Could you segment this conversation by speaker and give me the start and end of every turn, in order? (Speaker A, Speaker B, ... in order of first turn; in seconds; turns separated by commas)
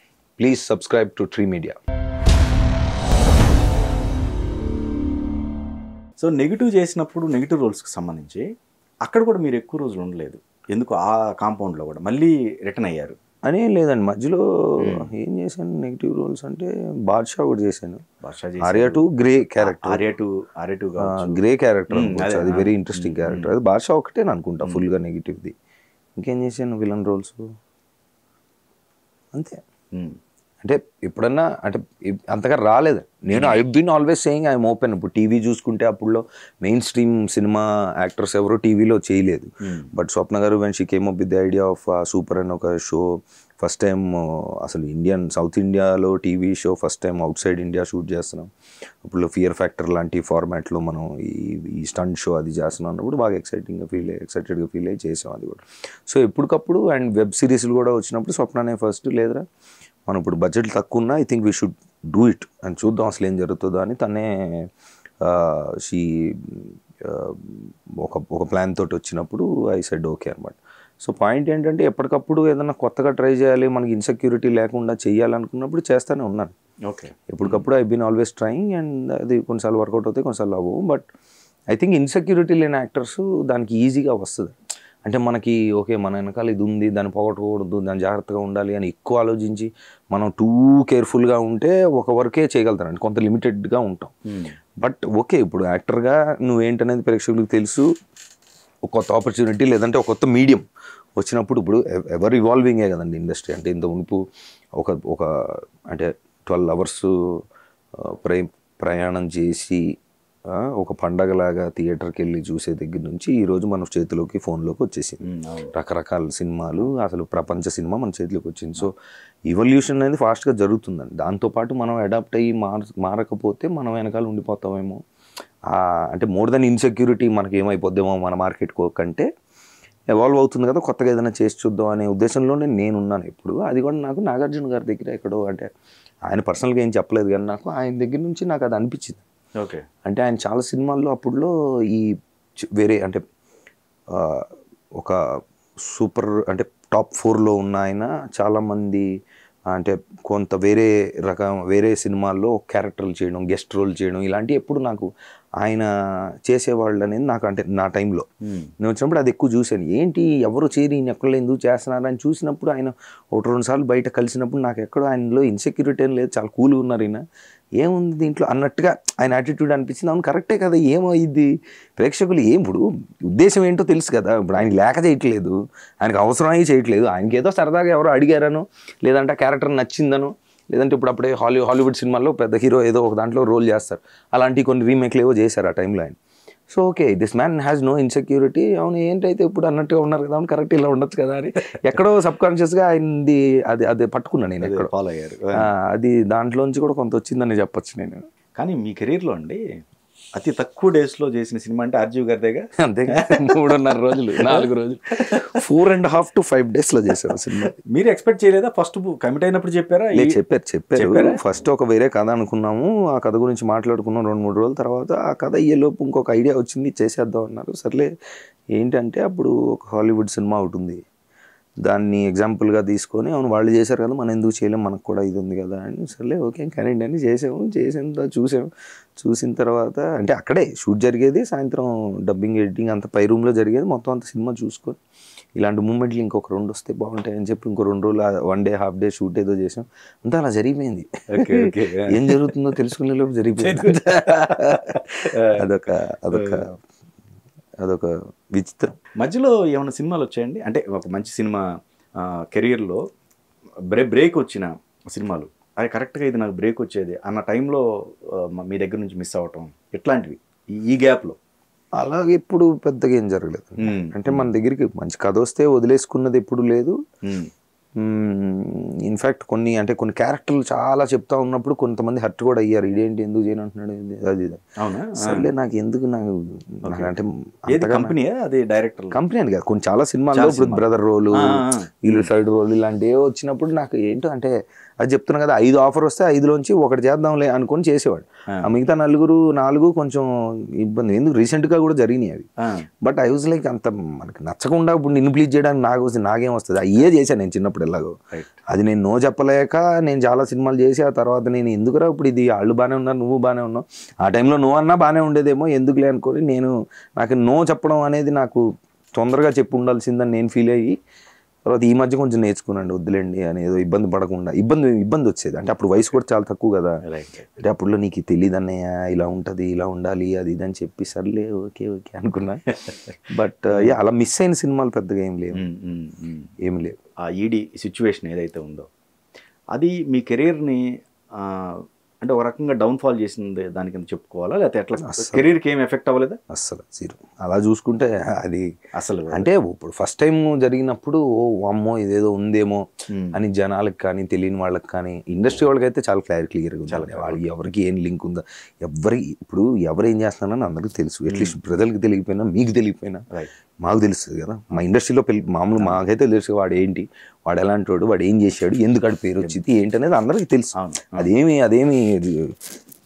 Speaker A: 0.4-1.8, Speaker B: 6.2-8.4, Speaker B: 9.1-13.2, Speaker A: 13.5-18.0, Speaker B: 14.8-15.1, Speaker B: 18.2-19.0, Speaker A: 18.6-20.0, Speaker B: 19.6-23.5, Speaker A: 21.0-25.5, Speaker A: 26.2-27.4, Speaker A: 29.3-29.6, Speaker A: 30.6-43.1, Speaker B: 39.6-39.9, Speaker A: 43.6-48.5, Speaker A: 49.0-59.4, Speaker A: 60.1-64.7, Speaker A: 65.2-76.5, Speaker B: 76.9-77.6, Speaker A: 77.3-81.1, Speaker A: 81.7-94.1, Speaker B: 94.3-94.5, Speaker A: 94.8-97.9, Speaker A: 98.9-100.6, Speaker A: 101.2-104.2, Speaker A: 104.8-107.4, Speaker A: 108.0-109.8, Speaker A: 110.5-118.9, Speaker B: 115.2-115.7, Speaker A: 119.5-125.0, Speaker A: 125.7-129.3, Speaker A: 130.1-135.7, Speaker A: 136.3-139.2, Speaker B: 139.6-139.8, Speaker A: 140.1-142.1, Speaker A: 142.8-143.2, Speaker A: 144.1-145.2, Speaker A: 145.8-149.1, Speaker A: 149.7-155.1, Speaker A: 155.6-155.9, Speaker A: 156.5-158.3, Speaker A: 158.8-167.2, Speaker A: 167.8-186.2, Speaker A: 186.7-194.9, Speaker B: 194.6-195.7, Speaker A: 195.6-198.2, Speaker B: 198.6-199.6, Speaker B: 200.3-205.6, Speaker A: 202.8-207.8, Speaker B: 207.4-210.4, Speaker A: 210.2-218.1, Speaker B: 211.0-211.4, Speaker A: 218.8-221.0, Speaker A: 221.8-235.0, Speaker A: 235.6-246.8, Speaker B: 241.3-242.9, Speaker B: 243.6-245.7, Speaker B: 246.3-246.7, Speaker A: 247.8-249.0, Speaker B: 249.2-251.7, Speaker B: 252.2-253.0, Speaker B: 253.9-257.8, Speaker B: 258.4-261.4, Speaker A: 262.0-267.0, Speaker B: 263.8-264.5, Speaker B: 267.3-267.5, Speaker A: 268.0-274.6, Speaker B: 274.8-275.5, Speaker A: 275.1-278.2, Speaker B: 276.9-277.1, Speaker B: 277.7-279.2, Speaker A: 279.1-290.3, Speaker B: 280.3-282.3, Speaker A: 290.8-292.5, Speaker A: 293.0-298.2, Speaker B: 298.3-298.6, Speaker A: 298.7-311.0, Speaker A: 311.7-317.0, Speaker B: 317.0-317.5, Speaker A: 317.6-325.6, Speaker B: 325.5-326.5, Speaker A: 326.6-327.0, Speaker B: 327.2-328.9, Speaker B: 329.7-336.4, Speaker A: 335.0-335.4, Speaker A: 336.5-338.6, Speaker B: 338.9-339.5, Speaker A: 339.3-353.2, Speaker B: 343.1-343.4, Speaker B: 346.9-347.4, Speaker B: 351.3-351.6, Speaker A: 353.8-362.6, Speaker B: 355.8-356.0, Speaker B: 360.8-361.3